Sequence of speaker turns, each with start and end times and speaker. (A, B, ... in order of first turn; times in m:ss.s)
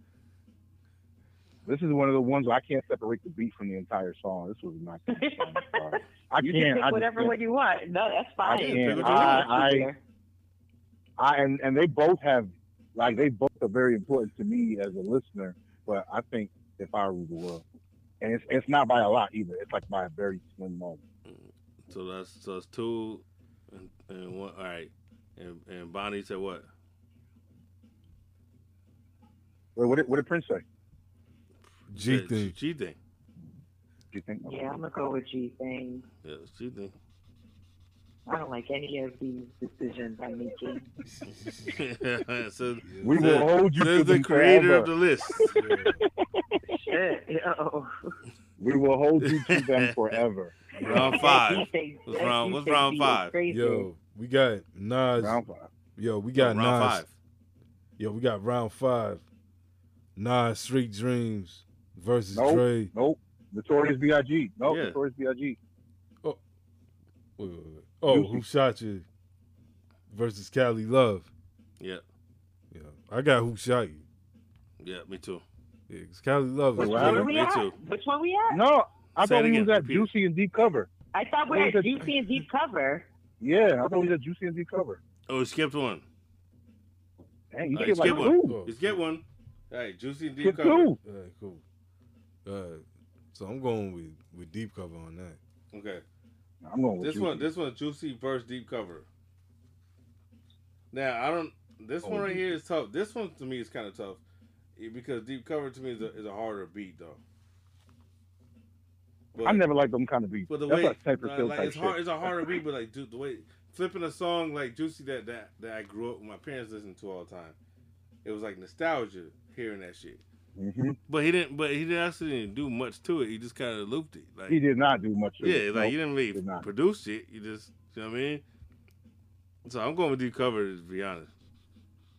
0:01.6-0:07.3 A
0:05.1-0:10.0 B
0:08.5-0:09.6 C
0:08.5-0:09.9 A
0:11.2-0:17.6 A
0:18.2-0:21.0 A
0:21.3-0:26.7 C
0:29.8-0:30.6 A
0:31.9-0:32.5 D
0:31.9-0:33.0 C
0:34.1-0:34.8 A
0:34.4-0:36.0 B
0:36.2-0:36.9 C
0:38.3-0:40.9 B
0:41.1-0:41.8 D
0:41.6-0:45.5 C
0:42.8-0:43.4 D
0:43.0-0:44.9 A
0:45.4-0:46.1 B
0:45.5-0:46.0 D
0:46.7-0:47.9 B
0:48.6-0:50.6 A
0:49.2-0:50.2 C
0:50.7-0:51.2 D
0:50.8-0:53.3 C
0:50.8-0:53.9 B
0:53.5-0:55.4 D
0:55.2-0:55.7 A
0:56.0-0:57.0 D
0:56.4-0:57.1 C
0:58.0-0:59.2 D
1:00.2-1:02.9 D
1:02.3-1:05.6 A
1:04.6-1:05.0 C
1:07.4-1:09.1 D
1:08.1-1:08.4 A
1:10.1-1:11.3 D
1:12.7-1:14.0 D
1:14.8-1:15.4 C
1:15.9-1:17.3 D
1:16.8-1:17.3 A
1:16.8-1:18.6 B
1:16.8-1:17.7 C
1:18.5-1:20.9 A
1:19.2-1:20.1 C
1:21.1-1:23.1 B
1:21.5-1:22.1 A
1:23.4-1:25.0 A
1:25.3-1:26.0 C
1:27.5-1:28.6 A
1:27.7-1:30.9 C
1:28.4-1:29.0 D
1:30.4-1:31.0 A
1:31.0-1:31.6 D
1:32.4-1:35.4 D
1:35.7-1:36.0 C
1:36.6-1:37.5 A
1:37.0-1:39.1 C
1:40.9-1:44.2 C
1:42.0-1:42.4 D
1:44.8-1:47.2 C
1:49.3-1:49.6 C
1:49.4-1:52.6 A
1:50.5-1:57.6 C
1:58.2-2:00.2 C
2:00.6-2:01.0 A
2:01.1-2:04.6 C
2:04.5-2:06.7 A
2:05.4-2:08.4 C
2:09.6-2:11.3 C